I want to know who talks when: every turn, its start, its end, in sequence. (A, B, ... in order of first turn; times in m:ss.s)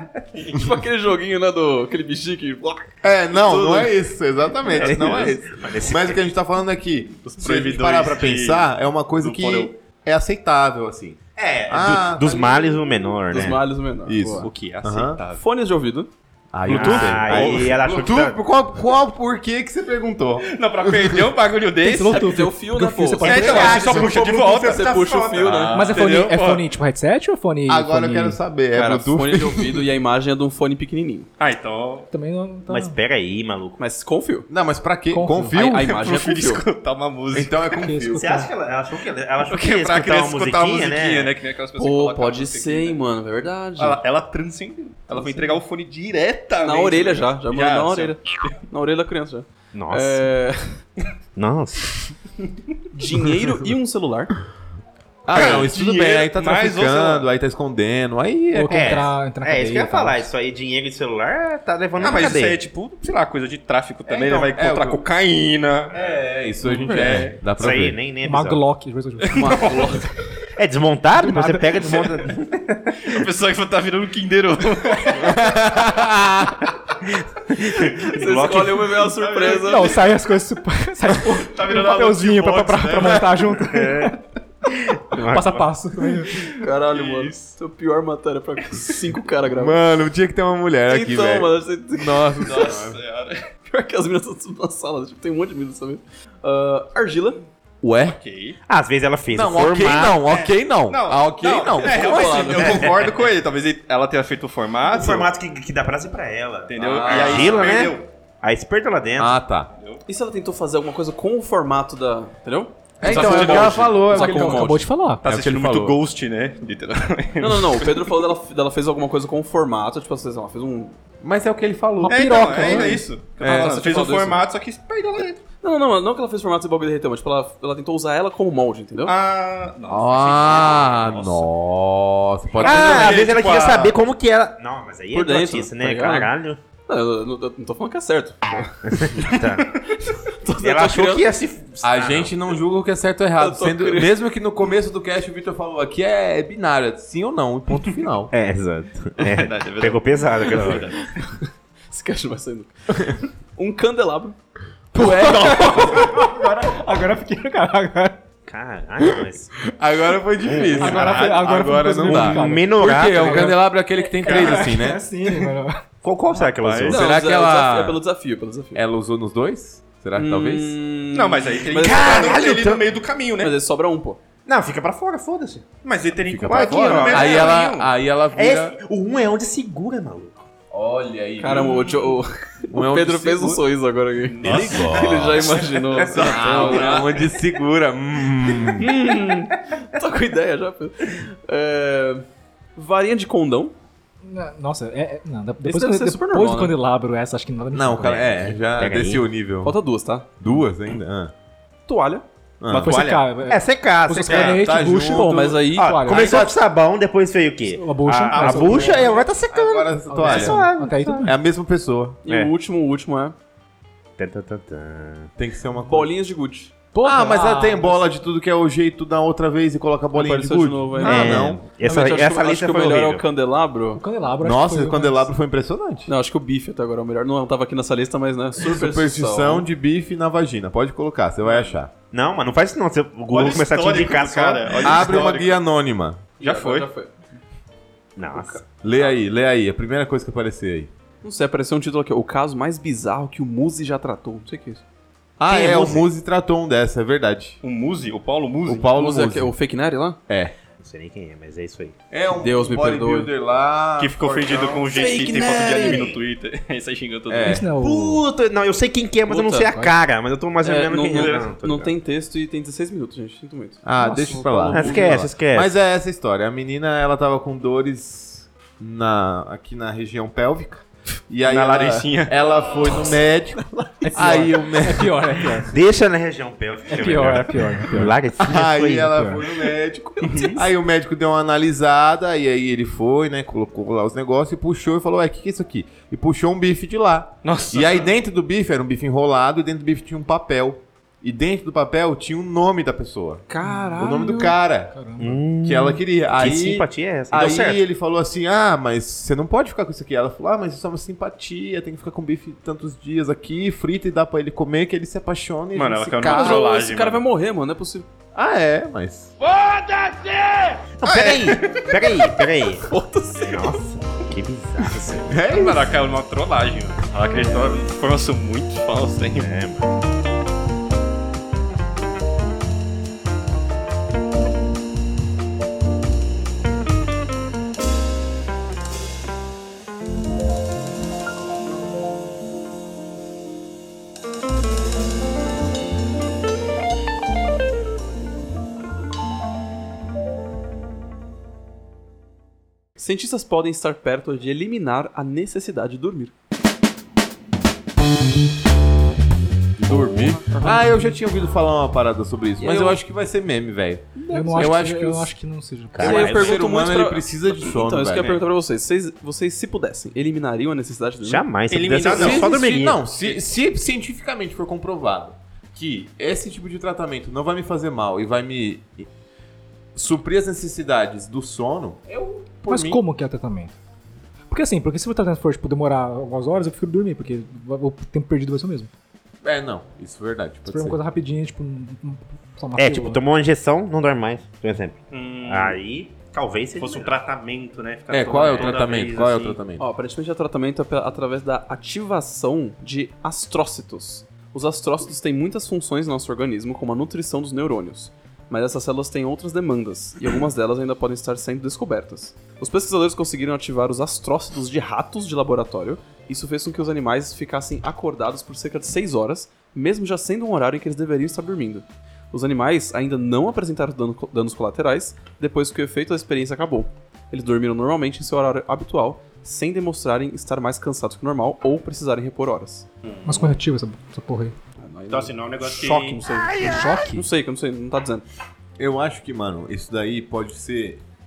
0:00.5-0:02.9 A
0:03.0-0:12.6 B
0:03.4-0:03.9 A
0:04.7-0:06.2 C
0:04.7-0:05.3 D
0:07.3-0:09.7 D
0:11.4-0:13.6 C
0:13.3-0:14.5 A
0:14.1-0:15.2 B
0:14.4-0:15.4 D
0:15.4-0:16.1 A
0:16.5-0:21.3 B
0:16.7-0:17.8 D
0:16.7-0:18.4 C
0:20.4-0:22.3 D
0:21.8-0:24.0 E
0:22.1-0:25.8 A
0:23.2-0:26.7 D
0:23.3-0:24.3 C
0:25.8-0:28.4 E
0:27.7-0:29.8 B
0:28.8-0:31.3 A
0:31.4-0:32.1 D
0:32.1-0:33.0 E
0:32.7-0:33.8 C
0:33.8-0:34.5 A
0:34.5-0:35.9 B
0:35.1-0:35.6 E
0:35.6-0:36.6 A
0:35.8-0:37.6 D
0:37.3-0:38.3 B
0:37.8-0:38.5 E
0:38.2-0:41.4 C
0:39.4-0:43.0 D
0:41.8-0:44.0 A
0:43.8-0:48.2 D
0:46.6-0:50.8 A
0:49.7-0:50.3 C
0:51.4-0:52.0 C
0:52.9-0:54.4 A
0:55.2-0:59.1 B
0:55.3-0:57.3 D
0:58.5-1:00.3 E
0:58.7-1:02.6 C
1:02.0-1:06.0 D
1:04.1-1:05.0 B
1:05.9-1:08.0 B
1:06.7-1:07.0 E
1:06.9-1:07.4 D
1:07.6-1:08.6 C
1:08.2-1:09.5 E
1:09.2-1:10.0 D
1:09.4-1:10.0 A
1:10.6-1:13.2 C
1:11.2-1:11.8 E
1:13.0-1:15.5 D
1:15.2-1:16.6 B
1:17.0-1:18.9 C
1:18.1-1:20.0 A
1:19.0-1:20.1 D
1:19.6-1:24.2 E
1:21.4-1:23.4 D
1:23.7-1:24.2 C
1:24.7-1:25.7 C
1:25.3-1:26.4 E
1:26.6-1:29.8 A
1:26.8-1:27.4 D
1:29.5-1:33.0 B
1:30.9-1:32.8 A
1:32.4-1:33.4 D
1:33.7-1:37.4 A
1:37.8-1:38.2 B
1:38.0-1:38.6 D
1:38.7-1:40.3 C
1:39.3-1:43.1 B
1:40.2-1:45.3 D
1:41.8-1:42.9 A
1:44.9-1:49.4 C
1:46.7-1:48.1 D
1:46.8-1:47.8 B
1:49.2-1:49.7 B
1:50.1-1:54.9 A
1:53.0-1:56.0 B
1:53.0-1:54.0 D
1:54.1-1:55.2 E
1:55.2-1:58.0 D
1:57.4-2:01.0 A
2:01.2-2:03.7 B
2:02.0-2:03.1 E
2:02.1-2:05.4 D
2:03.4-2:04.4 A
2:05.6-2:09.1 A
2:09.0-2:11.5 D
2:09.9-2:13.2 B
2:12.6-2:14.0 D
2:12.6-2:16.6 C
2:15.1-2:16.3 A
2:16.9-2:18.7 A
2:18.9-2:19.8 C
2:20.4-2:21.3 A
2:20.6-2:22.3 C
2:21.8-2:28.3 B
2:23.4-2:24.2 A
2:28.3-2:31.0 C
2:29.2-2:31.1 D
2:31.9-2:34.4 A
2:34.9-2:35.9 B
2:35.0-2:38.2 E
2:38.5-2:39.5 C
2:39.8-2:45.0 B
2:40.5-2:41.2 C
2:40.8-2:45.8 E
2:40.9-2:41.3 D
2:42.0-2:43.6 C
2:46.0-2:47.1 C
2:46.4-2:47.0 D
2:46.9-2:48.0 B
2:46.9-2:48.8 A
2:48.7-2:50.8 B
2:50.1-2:52.4 A
2:51.1-2:53.6 D
2:51.8-2:52.9 C
2:53.4-2:54.2 A
2:54.5-2:55.7 C
2:55.8-2:57.9 D
2:56.3-2:58.8 B
2:56.4-2:57.6 C
2:58.3-3:00.5 C
3:00.7-3:02.0 B
3:01.4-3:07.1 A
3:02.7-3:03.6 B
3:04.2-3:07.2 D
3:04.4-3:08.9 B
3:08.8-3:12.2 A
3:12.8-3:13.7 A
3:14.2-3:18.4 E
3:15.6-3:16.8 A
3:17.7-3:19.8 B
3:18.0-3:19.2 C
3:19.6-3:20.4 A
3:20.4-3:21.3 B
3:21.9-3:22.2 A
3:22.6-3:23.0 B
3:22.7-3:23.3 D
3:22.8-3:26.5 E
3:22.9-3:24.6 C
3:24.3-3:26.5 B
3:25.1-3:26.0 A
3:25.8-3:31.3 C
3:27.7-3:29.1 E
3:28.3-3:29.2 D
3:29.5-3:32.2 B
3:30.1-3:31.4 E
3:32.2-3:33.4 A
3:34.2-3:35.3 C
3:35.4-3:36.1 B
3:35.8-3:36.7 A
3:36.9-3:38.0 E
3:37.0-3:41.6 B
3:40.1-3:44.0 A
3:41.0-3:43.2 C
3:44.0-3:45.3 E
3:44.4-3:46.1 B
3:46.1-3:49.6 A
3:48.6-3:51.9 B
3:51.5-3:51.7 D
3:52.1-3:55.2 C
3:53.3-3:55.6 D
3:54.8-3:56.2 B
3:56.4-3:56.9 D
3:56.4-3:57.1 A
3:58.2-3:58.6 C
3:58.3-3:58.6 A
3:58.8-4:00.9 B
4:01.2-4:04.8 A
4:05.4-4:07.6 B
4:05.5-4:06.0 C
4:07.6-4:08.9 D
4:08.6-4:09.5 B
4:08.9-4:10.2 A
4:10.3-4:10.5 B
4:10.8-4:12.0 C
4:12.1-4:16.0 B
4:12.4-4:13.3 A
4:14.0-4:17.6 D
4:14.9-4:16.1 A
4:15.3-4:16.1 C
4:17.3-4:17.6 B
4:17.4-4:18.2 E
4:17.7-4:21.9 C
4:19.3-4:19.9 A
4:20.6-4:23.9 A
4:23.8-4:35.3 B
4:24.0-4:24.8 E
4:24.4-4:25.3 A
4:24.7-4:25.7 C
4:31.4-4:32.4 D
4:34.0-4:35.7 E
4:35.7-4:39.3 C
4:36.9-4:38.2 E
4:38.0-4:53.5 B
4:39.1-4:39.4 E
4:40.2-4:40.6 D
4:47.4-4:48.1 D
4:53.5-4:54.6 A
4:53.6-4:54.4 E
4:54.0-4:54.9 B
4:54.9-4:55.4 E
4:55.2-4:57.8 C
4:55.6-5:06.7 B
5:05.8-5:07.2 D
5:06.2-5:08.1 A
5:08.4-5:09.3 B
5:09.4-5:11.9 D
5:11.0-5:12.9 C
5:12.9-5:13.8 A
5:13.4-5:15.4 C
5:15.3-5:15.9 B
5:15.5-5:19.5 D
5:19.4-5:19.9 C
5:43.0-5:46.3 A
5:49.8-5:55.4 B
5:49.8-5:51.0 A
5:52.6-5:53.0 A
5:54.2-5:54.8 A
5:54.3-5:56.2 E
5:55.9-5:56.6 C
5:56.0-6:01.5 A
5:56.1-5:58.4 B
6:01.2-6:03.0 C
6:01.7-6:03.4 D
6:02.0-6:09.1 B
6:10.0-6:13.0 B
6:12.7-6:13.7 E
6:14.5-6:18.9 E
6:19.4-6:21.0 B
6:20.6-6:23.2 E
6:22.8-6:27.2 C
6:25.1-6:25.8 D
6:26.8-6:29.6 D
6:28.1-6:29.9 B
6:28.5-6:28.8 C
6:29.8-7:02.9 A
7:03.1-7:03.6 D
7:03.3-7:04.6 E
7:04.8-7:08.3 A
7:05.1-7:06.2 D
7:06.5-7:07.3 E
7:08.8-7:11.0 B